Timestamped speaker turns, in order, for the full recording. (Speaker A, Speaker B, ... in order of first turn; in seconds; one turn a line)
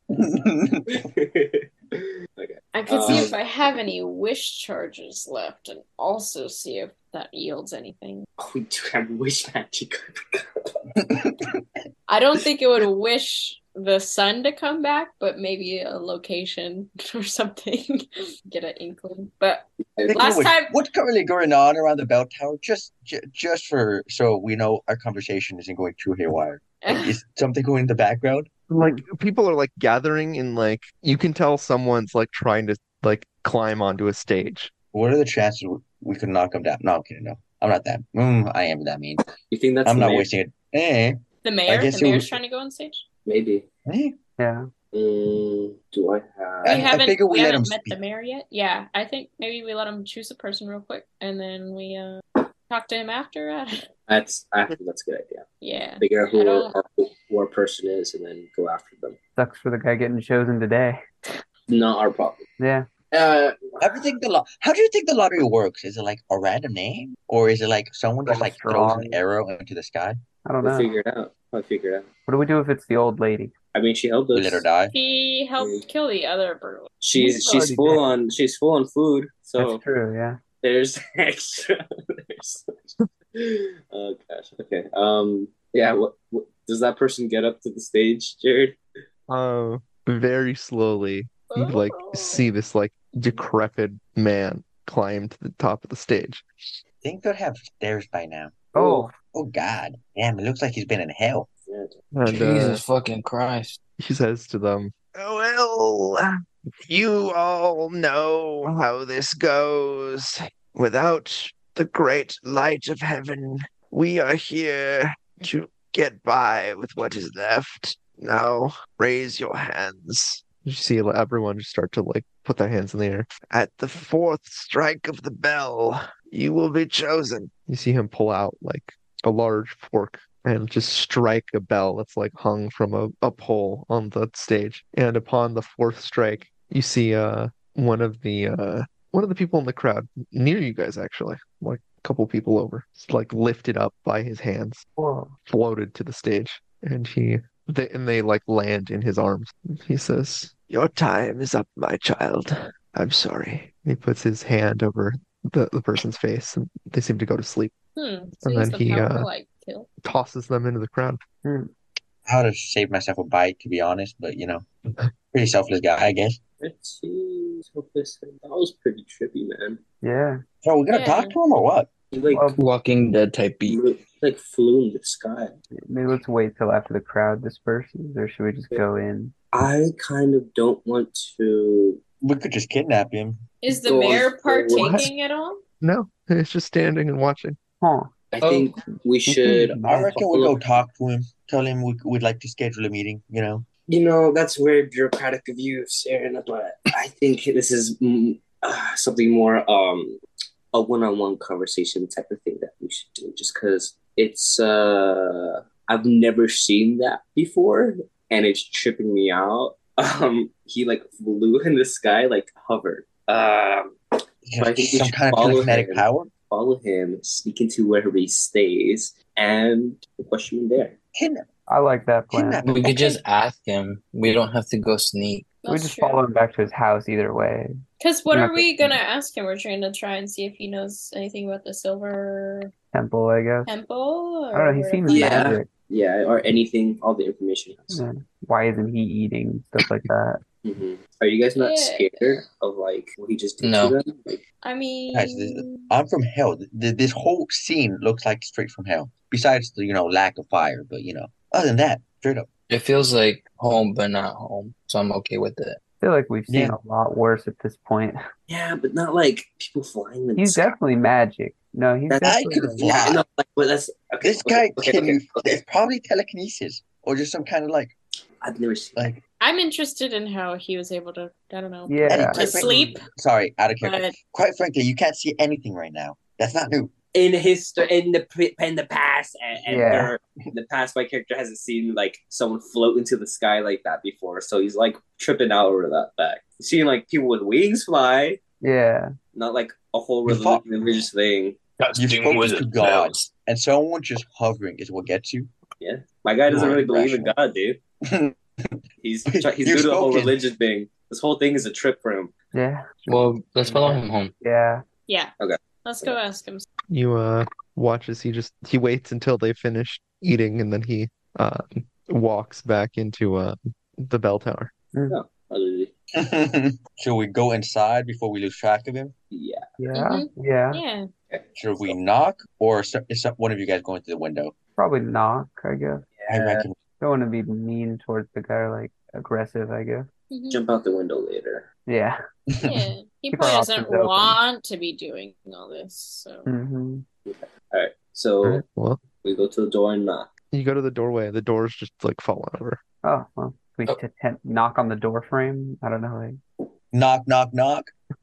Speaker A: 0.1-1.0
Speaker B: 0.9-3.4
Speaker C: 2.7-8.3
Speaker B: 8.4-10.7
Speaker C: 12.1-20.7
Speaker A: 20.1-28.5
Speaker C: 26.8-27.2
Speaker D: 28.7-34.7
Speaker E: 28.8-29.0
Speaker A: 34.9-39.2
Speaker B: 39.5-40.3
Speaker A: 39.9-42.4
Speaker C: 41.4-43.0
Speaker B: 43.2-43.7
Speaker A: 43.9-44.1
Speaker E: 44.4-44.7
Speaker B: 44.9-46.9
Speaker A: 46.6-48.0
Speaker C: 46.7-53.9
Speaker B: 54.0-55.5
Speaker C: 55.6-56.7
Speaker B: 56.0-59.2
Speaker E: 59.4-61.0
Speaker B: 61.7-62.4
Speaker E: 62.6-62.9
Speaker B: 63.1-64.1
Speaker A: 63.8-70.2
Speaker E: 68.3-69.2
Speaker E: 70.5-70.9
Speaker B: 70.6-72.1
Speaker E: 72.3-73.5
Speaker B: 73.7-74.7
Speaker A: 74.3-74.9
Speaker C: 74.9-76.9
Speaker B: 75.6-75.8
Speaker B: 77.0-79.8
Speaker E: 77.1-78.0
Speaker E: 79.6-80.4
Speaker B: 80.6-88.8
Speaker D: 89.3-96.5
Speaker C: 91.5-92.5
Speaker A: 97.0-98.7
Speaker E: 98.7-99.1
Speaker B: 98.8-99.1
Speaker A: 99.2-101.5
Speaker B: 101.6-102.0
Speaker D: 102.1-102.8
Speaker F: 102.3-103.8
Speaker D: 104.0-106.2
Speaker D: 106.8-144.8
Speaker E: 145.0-145.3
Speaker D: 145.5-157.7
Speaker C: 158.0-159.9
Speaker D: 158.4-159.3
Speaker D: 160.0-161.2
Speaker E: 161.4-161.7
Speaker A: 162.3-164.7
Speaker A: 165.3-166.4
Speaker B: 166.6-169.8
Speaker E: 170.0-170.4
Speaker A: 170.6-171.9
Speaker C: 170.9-171.4
Speaker B: 172.1-172.5
Speaker E: 172.3-172.6
Speaker F: 172.6-173.8
Speaker B: 173.7-175.6
Speaker E: 175.9-179.3
Speaker B: 179.5-182.0
Speaker A: 182.2-183.4
Speaker C: 183.6-185.6
Speaker B: 183.7-185.1
Speaker D: 184.8-185.1
Speaker D: 185.8-187.6
Speaker E: 187.8-188.1
Speaker B: 188.3-190.6
Speaker F: 188.4-188.7
Speaker E: 189.3-190.2
Speaker A: 189.9-193.7
Speaker B: 193.9-200.2
Speaker B: 200.7-214.0
Speaker A: 214.5-216.3
Speaker B: 214.6-221.0
Speaker A: 221.2-221.5
Speaker E: 221.7-222.6
Speaker A: 222.3-223.2
Speaker F: 222.6-225.5
Speaker C: 225.6-226.2
Speaker E: 225.7-227.7
Speaker C: 228.0-232.7
Speaker E: 228.3-228.9
Speaker E: 232.9-233.7
Speaker C: 233.7-235.6
Speaker E: 234.5-235.7
Speaker B: 235.1-238.0
Speaker E: 237.9-240.4
Speaker B: 240.6-244.4
Speaker C: 241.6-242.3
Speaker F: 243.6-244.0
Speaker C: 244.6-245.9
Speaker A: 245.1-252.5
Speaker F: 252.7-255.8
Speaker E: 256.0-258.2
Speaker A: 256.5-256.8
Speaker B: 258.5-260.8
Speaker E: 260.4-262.9
Speaker B: 262.1-265.6
Speaker A: 262.2-263.2
Speaker A: 264.2-267.9
Speaker B: 268.4-269.1
Speaker A: 269.0-269.2
Speaker C: 269.4-273.0
Speaker E: 271.9-272.7
Speaker A: 272.1-276.9
Speaker C: 273.8-274.1
Speaker B: 277.1-288.4
Speaker E: 279.7-280.1
Speaker E: 288.6-289.1
Speaker B: 289.3-291.6
Speaker A: 290.3-290.6
Speaker A: 291.9-295.5
Speaker F: 292.0-293.1
Speaker B: 295.8-297.8
Speaker D: 296.5-297.3
Speaker A: 298.1-298.4
Speaker B: 299.0-302.3
Speaker A: 299.3-300.4
Speaker E: 302.5-304.8
Speaker F: 303.1-304.3
Speaker B: 305.4-306.2
Speaker C: 305.8-306.7
Speaker D: 306.9-314.7
Speaker B: 315.1-315.9
Speaker A: 316.2-319.1
Speaker B: 319.3-319.7
Speaker E: 319.8-320.8
Speaker C: 319.9-321.1
Speaker B: 321.3-321.9
Speaker A: 321.6-324.5
Speaker E: 324.8-326.1
Speaker B: 326.2-326.6
Speaker A: 326.3-326.8
Speaker E: 327.0-330.1
Speaker C: 330.3-330.6
Speaker B: 330.5-331.7
Speaker E: 331.9-332.2
Speaker A: 332.6-332.8
Speaker C: 332.6-336.5
Speaker E: 333.3-334.4
Speaker E: 336.5-337.1
Speaker B: 337.3-338.6
Speaker D: 338.4-339.0
Speaker B: 339.2-340.3
Speaker D: 340.5-342.8
Speaker E: 343.0-346.4
Speaker A: 346.9-347.9